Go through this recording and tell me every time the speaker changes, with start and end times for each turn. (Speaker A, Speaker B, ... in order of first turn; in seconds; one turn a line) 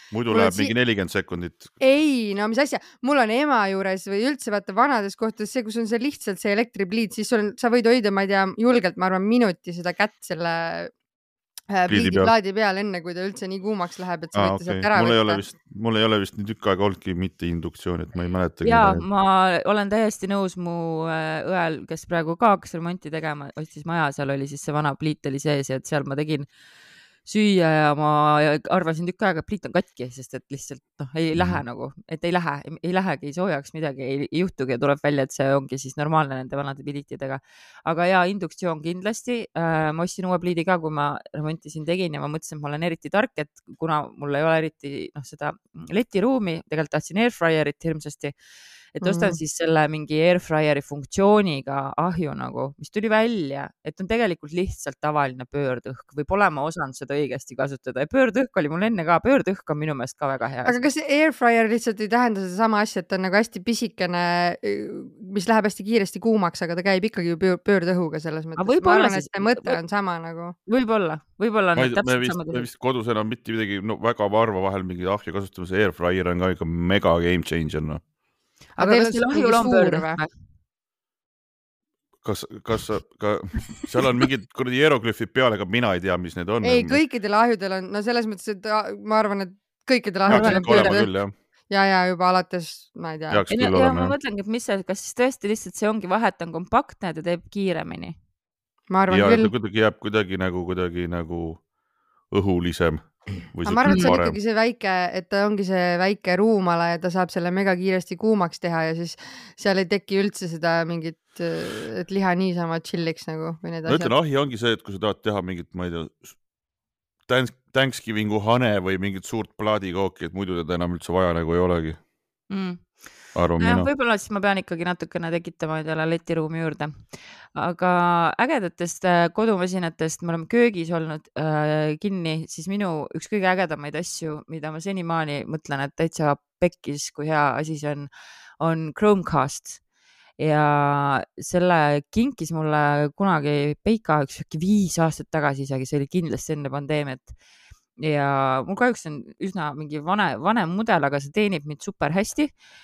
Speaker A: 0.1-1.7
Speaker B: 0.3-0.7
Speaker B: 1.8-10.9
Speaker B: 11.7-15.4
Speaker A: 11.9-12.3
Speaker A: 14.3-19.0
Speaker C: 18.6-26.5
Speaker C: 27.2-48.3
Speaker A: 31.3-31.6
Speaker C: 48.9-60.9
Speaker B: 49.0-49.4
Speaker B: 60.6-70.5
Speaker C: 68.6-69.8
Speaker C: 70.7-72.7
Speaker A: 71.8-78.0
Speaker C: 78.8-80.3
Speaker B: 78.8-80.2
Speaker A: 82.2-87.0
Speaker B: 86.6-91.1
Speaker A: 90.3-91.3
Speaker C: 90.3-91.0
Speaker B: 91.7-93.4
Speaker A: 93.3-94.1
Speaker C: 93.5-98.2
Speaker B: 98.9-99.5
Speaker A: 99.1-101.6
Speaker A: 102.3-104.3
Speaker B: 103.7-114.1
Speaker A: 113.8-116.3
Speaker A: 117.3-122.0
Speaker C: 122.5-139.8
Speaker A: 123.3-123.9
Speaker C: 140.4-147.3
Speaker C: 148.0-152.5